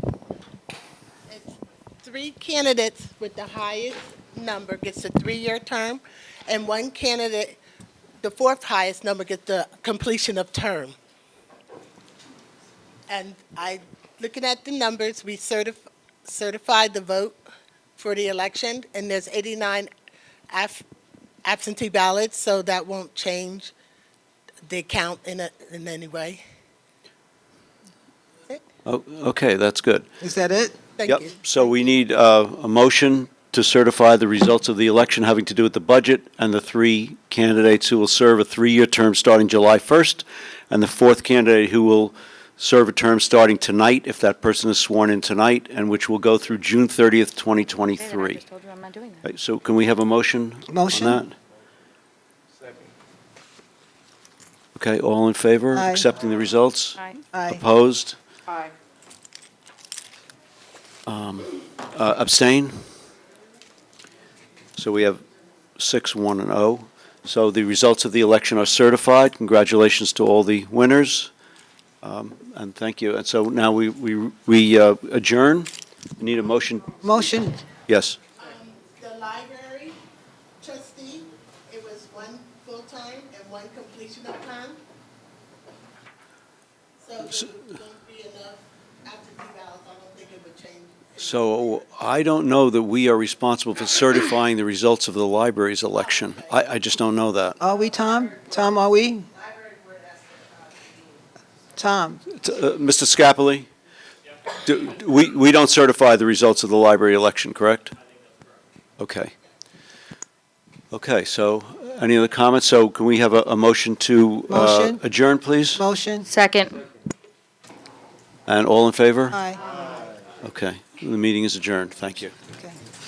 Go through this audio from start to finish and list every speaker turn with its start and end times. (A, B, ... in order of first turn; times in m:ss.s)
0:01.3-0:07.6 A
0:08.2-0:11.0 A
0:13.1-0:17.4 A
0:18.0-0:19.9 A
0:20.5-0:20.8 A
0:21.4-0:23.7 A
0:24.7-0:26.4 A
0:28.8-0:30.1 B
0:30.2-0:30.8 C
0:31.0-0:31.4 A
0:31.1-0:48.4 B
0:48.0-0:49.2 D
0:49.2-0:51.4 B
0:50.7-0:51.2 C
0:54.8-0:58.2 B
0:55.7-0:56.1 C
0:57.0-0:57.2 D
0:57.3-0:57.6 C
1:01.1-1:02.8 B
1:04.8-1:05.2 B
1:05.8-1:11.3 B
1:12.0-1:17.0 B
1:17.0-1:17.6 C
1:17.9-1:18.2 B
1:18.4-1:20.0 A
1:20.6-1:24.8 A
1:27.0-1:31.8 A
1:31.2-1:37.6 B
1:35.9-1:36.6 A
1:37.6-1:39.3 C
1:39.4-1:41.0 A
1:41.8-1:42.2 C
1:42.3-1:43.7 B
1:44.6-1:48.0 B
1:49.0-1:49.3 B
1:50.9-1:55.8 B
1:54.5-1:55.0 C
1:55.8-1:56.3 C
1:56.3-1:56.8 D
1:58.5-1:59.4 B
1:59.3-1:59.6 C
2:00.4-2:02.4 B
2:02.5-2:02.8 C